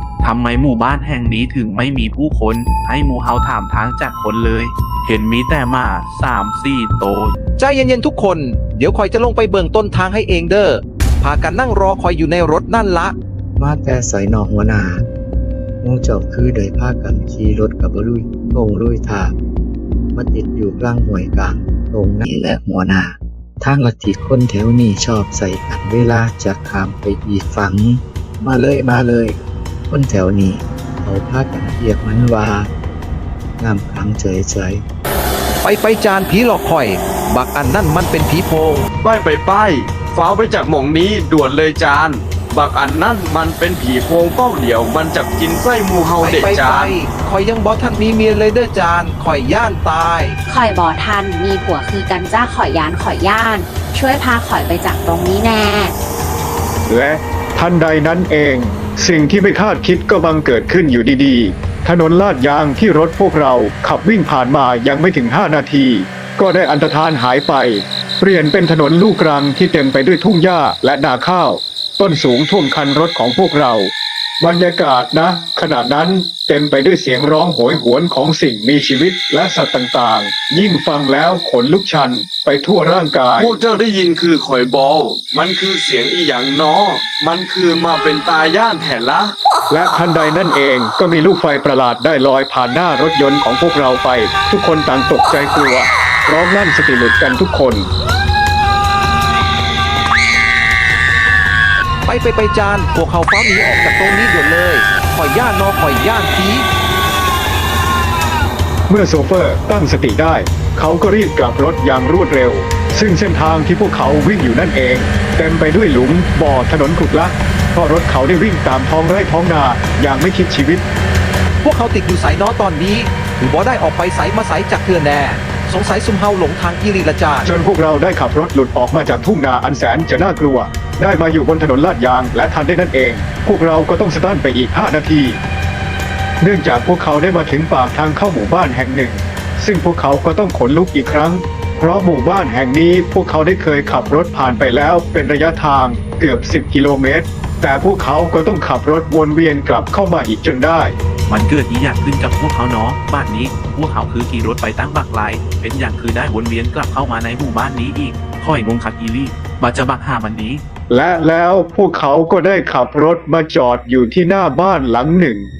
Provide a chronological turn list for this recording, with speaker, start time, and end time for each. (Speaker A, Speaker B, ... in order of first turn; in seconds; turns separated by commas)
Speaker A: 0.2-7.3, Speaker B: 7.6-13.1, Speaker C: 13.6-15.1, Speaker C: 15.8-19.3, Speaker C: 20.1-29.4, Speaker C: 29.9-32.7, Speaker C: 33.6-34.8, Speaker B: 35.6-38.9, Speaker D: 39.0-47.0, Speaker B: 46.2-50.4, Speaker E: 50.5-55.9, Speaker F: 56.9-83.5, Speaker D: 83.4-89.3, Speaker F: 89.7-97.9, Speaker B: 102.0-106.7, Speaker F: 108.9-120.8, Speaker B: 121.6-127.5, Speaker F: 127.4-135.4, Speaker F: 136.4-150.9, Speaker A: 151.3-160.6, Speaker F: 160.9-165.5